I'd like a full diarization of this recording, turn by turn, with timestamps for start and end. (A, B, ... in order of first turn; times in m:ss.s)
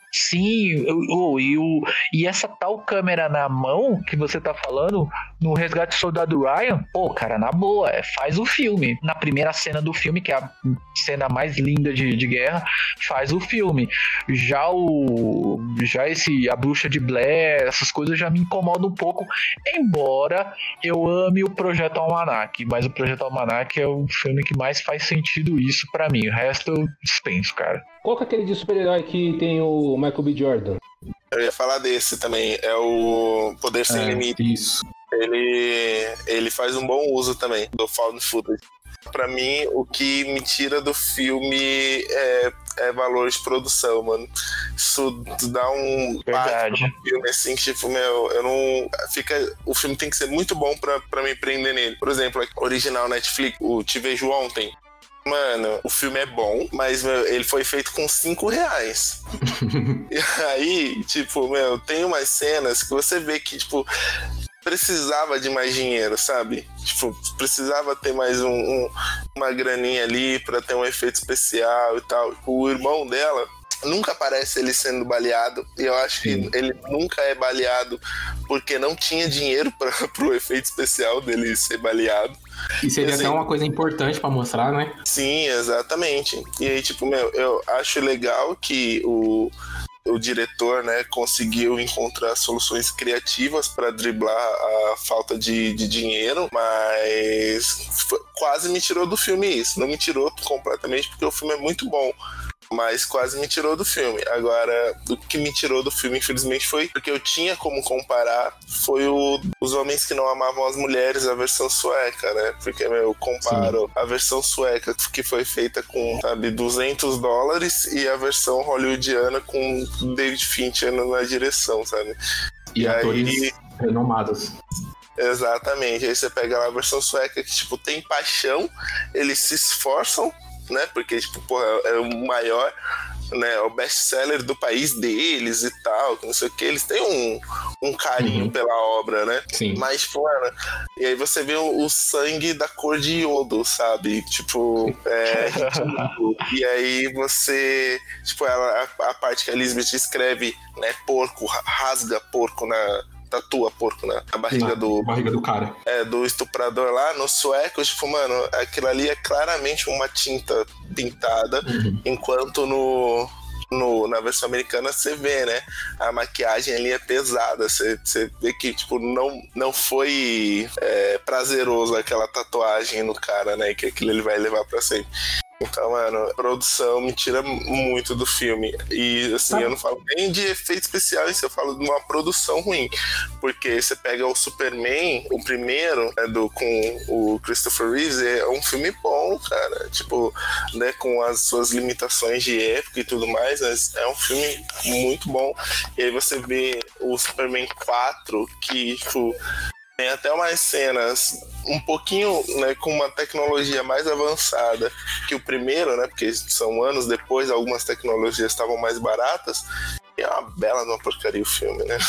0:00.1-0:27.8 A
0:28.0-0:30.8 B
0:31.3-0:34.4 C
0:33.9-0:34.8 D
0:35.1-0:38.6 C
0:39.1-0:54.7 C
0:46.3-0:46.9 A
0:55.2-0:59.2 C
0:59.4-1:00.0 D
1:00.1-1:03.9 C
1:04.6-1:22.4 C
1:16.2-1:16.5 D
1:22.8-1:25.0 D
1:23.0-1:23.4 C
1:25.1-1:29.5 C
1:30.0-1:42.2 C
1:42.7-2:02.2 C
1:53.4-1:53.8 D
2:02.7-2:04.5 D
2:02.8-2:03.5 C
2:05.2-2:12.7 C
2:13.3-2:35.1 C
2:18.2-2:18.5 D
2:19.5-2:19.8 D
2:25.3-2:25.9 A
2:25.5-2:26.1 D
2:34.5-2:35.7 D
2:35.9-2:55.1 C
2:41.6-2:42.0 D
2:55.6-3:19.3 C
3:20.0-3:29.6 C
3:30.2-3:32.0 C